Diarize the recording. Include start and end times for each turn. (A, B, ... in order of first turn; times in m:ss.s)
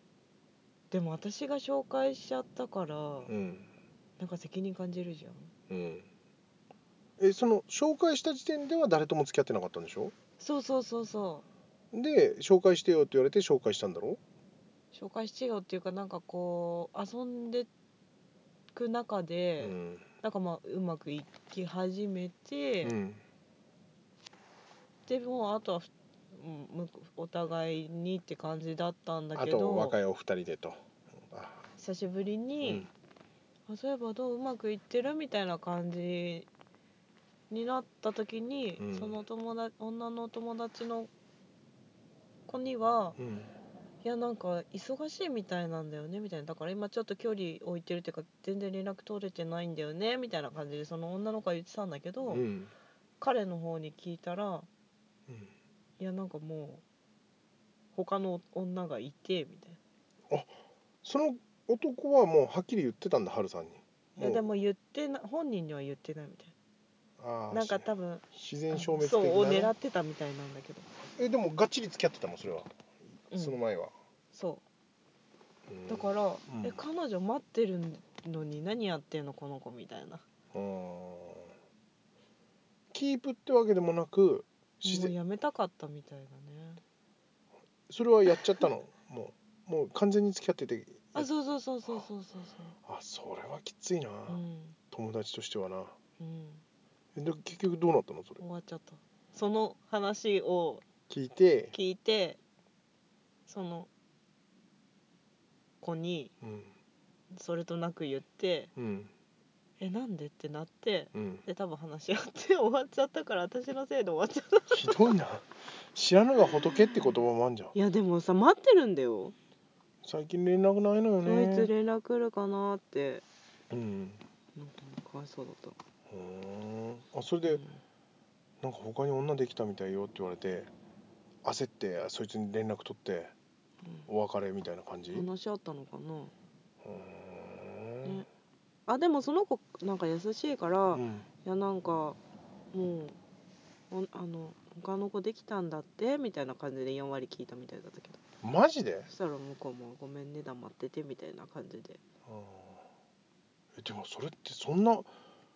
0:00.9-0:03.3 A
0:03.3-0:03.7 B
0:04.2-0:05.5 A
0:05.7-0:06.1 B
0:07.2-0:10.1 B
0:10.4-0:11.4 A
0:11.9-0:14.2 B
0:14.9-0:17.7 A
0:18.7-0:22.9 A
0:19.6-0:20.0 B
0:22.8-0:23.2 B
0:25.0-0:30.0 A
0:29.3-0:31.6 B
0:31.8-0:32.9 A
0:32.6-0:32.9 B
0:33.7-0:36.5 A
0:37.5-0:41.1 A
0:38.8-0:39.2 B
0:42.5-0:43.2 A
0:43.2-0:43.5 B
0:44.0-0:52.4 A
0:52.2-0:52.7 B
0:53.2-0:54.7 A
0:56.0-0:56.8 A
0:57.9-0:59.8 A
1:00.3-1:04.4 B
1:04.2-1:06.5 A
1:07.2-1:09.7 B
1:07.5-1:10.9 A
1:11.2-1:12.7 B
1:13.3-1:13.9 B
1:13.3-1:13.6 A
1:14.3-1:14.6 A
1:15.7-1:16.8 B
1:15.9-1:20.2 A
1:20.5-1:21.5 B
1:22.9-1:25.2 B
1:24.8-1:26.8 A
1:27.9-1:31.3 B
1:31.1-1:32.8 A
1:32.8-1:36.0 B
1:34.3-1:34.8 A
1:36.2-1:36.6 A
1:37.1-1:38.4 B
1:38.4-1:40.8 A
1:41.1-1:41.7 B
1:41.7-1:42.4 A
1:43.5-1:43.9 A
1:45.8-1:46.3 A
1:46.4-1:46.7 B
1:47.3-1:48.7 A
1:48.8-1:49.1 B
1:49.8-1:55.0 A
1:51.1-1:51.4 B
1:54.7-1:57.7 B
1:56.8-1:57.2 A
1:57.7-1:59.3 A
2:00.0-2:01.7 B
2:01.2-2:03.2 A
2:03.7-2:04.2 B
2:04.6-2:05.8 A
2:06.1-2:07.6 B
2:07.4-2:07.8 A
2:08.6-2:10.7 B
2:11.4-2:13.3 B
2:14.1-2:15.3 B
2:15.1-2:16.3 A
2:16.8-2:18.2 B
2:18.8-2:22.2 A
2:20.9-2:21.3 B
2:22.7-2:23.2 A
2:23.9-2:28.2 A
2:28.4-2:29.1 B
2:29.1-2:32.0 A
2:32.2-2:32.8 B
2:33.8-2:35.1 B